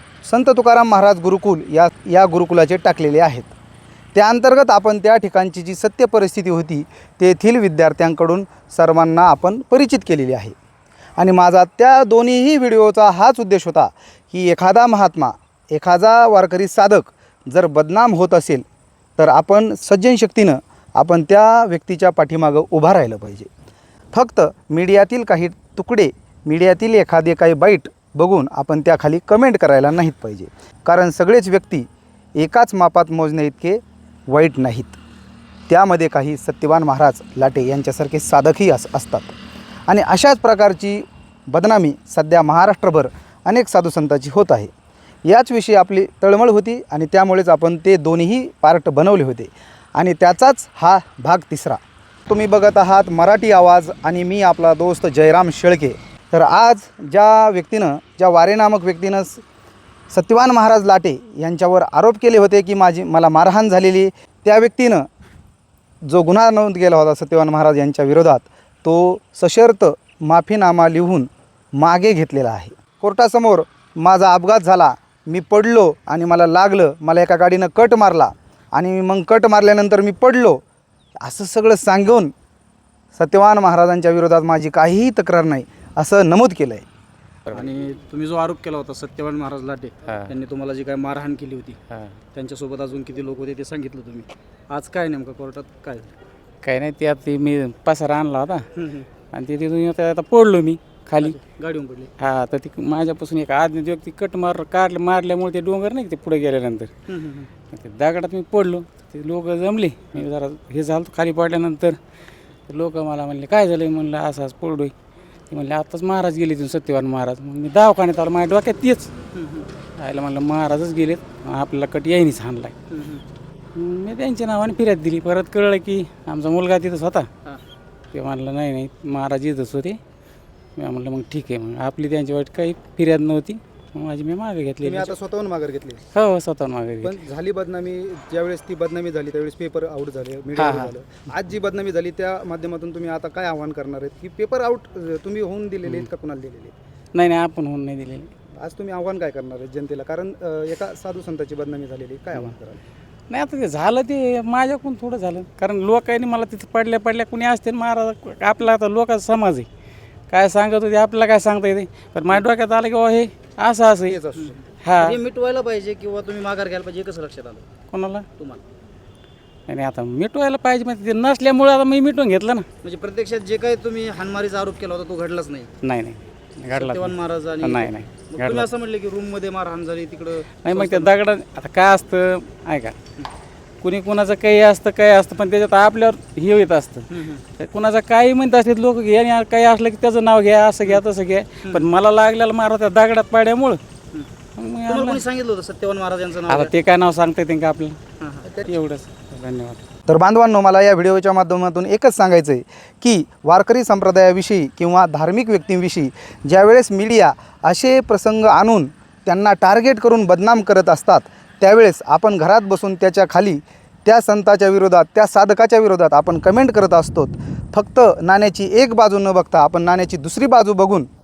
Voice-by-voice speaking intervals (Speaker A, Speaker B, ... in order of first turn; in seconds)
Speaker A: 0.2-3.5, 4.2-10.6, 11.2-18.6, 19.2-23.5, 24.1-35.0, 35.7-39.4, 39.9-44.7, 45.3-59.4, 60.1-65.1, 66.0-80.6, 81.2-82.3, 83.1-86.9, 134.8-136.0, 137.0-146.8, 148.6-152.8, 164.1-164.6, 200.1-221.1
Speaker B: 87.5-87.7, 90.0-90.3, 91.9-92.2, 96.6-98.7, 99.3-101.4, 102.2-106.9, 107.7-112.0, 112.7-114.9, 115.5-119.1, 120.0-122.8, 123.8-127.3, 128.1-130.0, 130.8-135.1, 136.1-137.2, 140.6-140.9, 147.1-148.3, 153.3-159.7, 160.3-164.2, 164.8-165.2, 167.9-168.3, 169.7-172.7, 175.8-178.7, 180.6-183.0, 183.8-193.8, 194.6-195.2, 196.5-198.0, 198.6-199.8
Speaker C: 87.5-91.8, 92.3-96.2, 98.8-99.1, 101.2-102.1, 107.1-107.5, 119.3-119.7, 122.9-123.2, 164.3-167.7, 168.4-168.6, 172.8-175.7, 176.7-181.1, 187.1-187.4, 194.9-196.7, 198.2-198.6